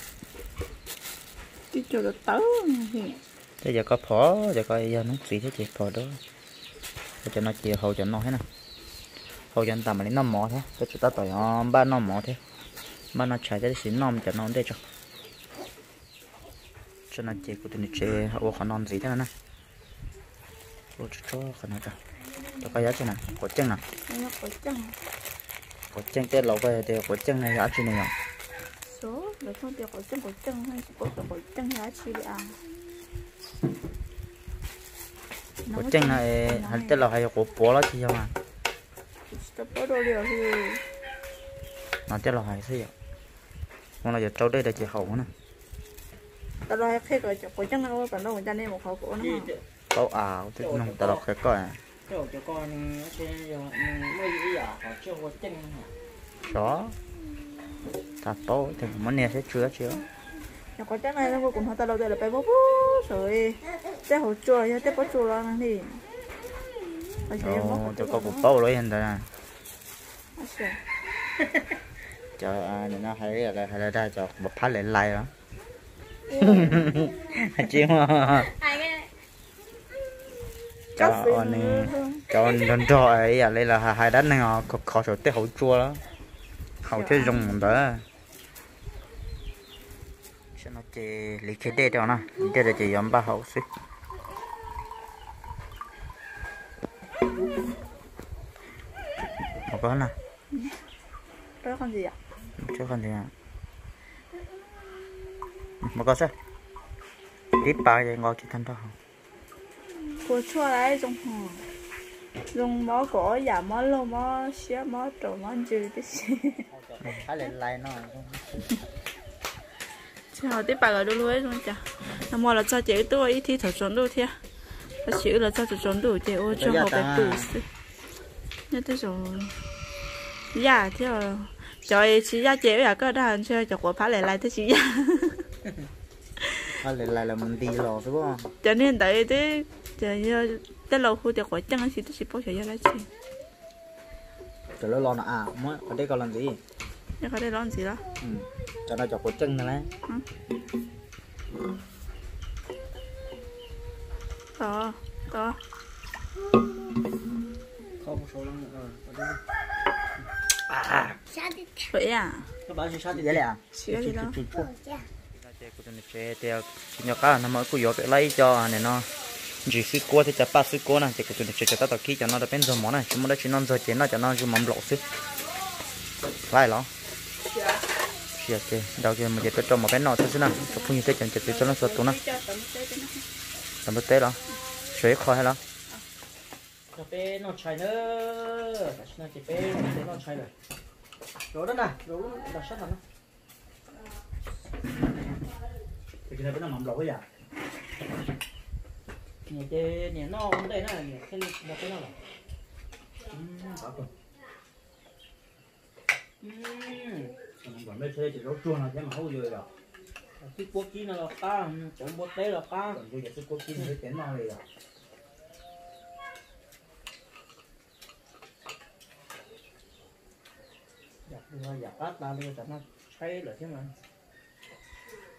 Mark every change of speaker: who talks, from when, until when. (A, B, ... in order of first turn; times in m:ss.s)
0:01.7-0:03.2 A
0:03.6-0:06.2 B
0:07.2-0:08.4 B
0:09.5-0:12.4 B
0:13.1-0:14.8 B
0:17.1-0:19.3 B
0:21.0-0:22.0 B
0:22.6-0:23.8 B
0:24.1-0:25.0 A
0:25.9-0:28.1 B
0:28.9-0:32.6 A
0:35.7-0:37.0 A
0:35.7-0:38.3 B
0:39.3-0:40.8 A
0:42.1-0:42.9 B
0:44.0-0:45.3 B
0:46.7-0:49.5 A
0:49.2-0:49.6 C
0:49.9-0:51.8 B
0:50.6-0:51.2 C
0:52.1-0:55.9 C
0:56.5-0:57.0 B
0:58.2-1:00.0 B
1:00.8-1:06.0 A
1:07.3-1:08.5 A
1:07.4-1:09.3 B
1:10.4-1:10.8 A
1:12.4-1:15.3 B
1:16.3-1:17.3 D
1:16.4-1:18.5 B
1:18.4-1:19.1 D
1:21.0-1:26.0 B
1:21.0-1:22.2 A
1:26.8-1:28.0 B
1:26.9-1:27.8 A
1:30.6-1:33.7 B
1:39.7-1:40.1 B
1:41.6-1:42.2 A
1:42.6-1:43.3 B
1:45.8-1:46.3 B
1:47.6-1:48.9 B
1:50.1-1:51.7 A
1:52.5-1:56.7 A
1:56.7-1:58.6 B
2:00.3-2:04.4 A
2:05.0-2:07.6 A
2:06.5-2:07.5 B
2:08.7-2:09.6 A
2:10.5-2:15.5 A
2:16.4-2:16.7 A
2:16.8-2:18.5 B
2:18.6-2:23.1 A
2:24.8-2:26.6 B
2:27.2-2:28.0 A
2:28.2-2:29.9 B
2:34.6-2:35.6 A
2:38.0-2:39.4 C
2:40.7-2:41.2 B
2:41.3-2:41.9 D
2:41.9-2:42.5 A
2:42.7-2:43.4 C
2:43.1-2:44.7 B
2:43.7-2:44.4 A
2:44.5-2:45.1 D
2:45.3-2:49.1 B
2:49.6-2:55.0 B
2:56.5-2:56.9 B
2:57.5-2:57.8 A
2:58.4-3:02.2 B
3:01.4-3:03.2 A
3:03.9-3:05.6 B
3:06.9-3:10.5 C
3:11.5-3:13.0 C
3:16.3-3:17.2 B
3:19.5-3:22.2 C
3:23.3-3:24.1 B
3:26.4-3:27.4 C
3:27.6-3:29.7 B
3:30.4-3:33.0 C
3:32.9-3:34.6 B
3:41.3-3:44.0 C